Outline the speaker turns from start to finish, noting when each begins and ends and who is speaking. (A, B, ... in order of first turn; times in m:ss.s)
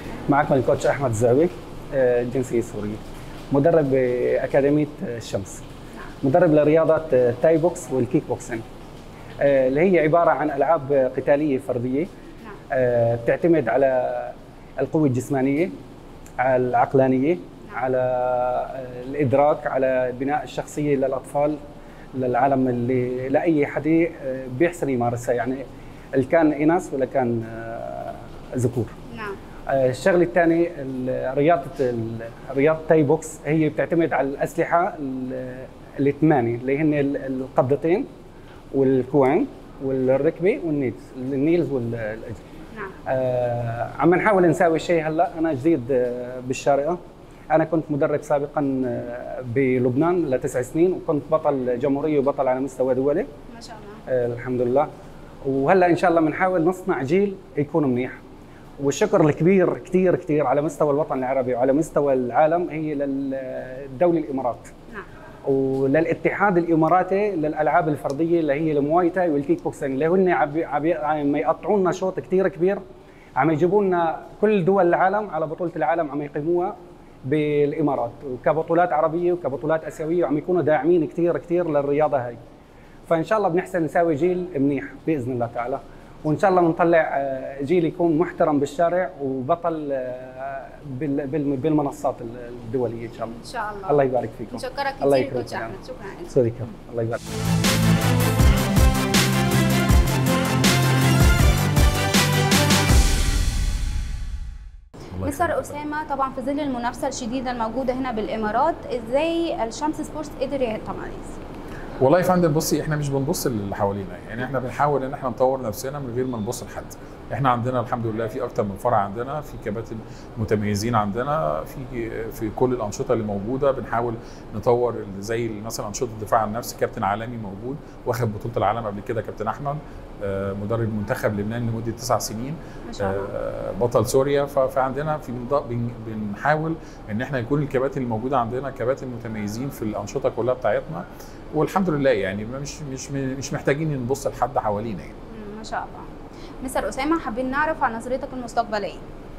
0:00.3-0:05.6 A
0:06.2-0:08.6 A
0:09.4-0:12.1 A
0:12.7-0:15.7 A
0:16.4-0:21.6 A
0:22.2-0:25.6 A
0:26.1-0:28.9 A
0:29.1-0:29.4 B
0:29.7-0:38.0 A
0:38.7-0:42.4 A
0:43.1-0:47.0 A
0:47.5-0:53.3 A
0:53.5-0:54.0 B
0:54.1-0:54.9 A
0:55.4-0:58.2 A
0:58.8-1:04.7 A
1:05.4-1:12.8 A
1:13.4-1:16.7 A
1:17.2-1:22.4 A
1:23.1-1:33.4 A
1:33.2-1:36.3 B
1:33.9-1:35.7 A
1:36.3-1:37.2 A
1:45.1-1:45.8 C
1:45.2-1:51.4 B
1:52.0-2:25.1 C
2:12.8-2:13.3 B
2:25.3-2:26.1 B
2:26.6-2:29.0 B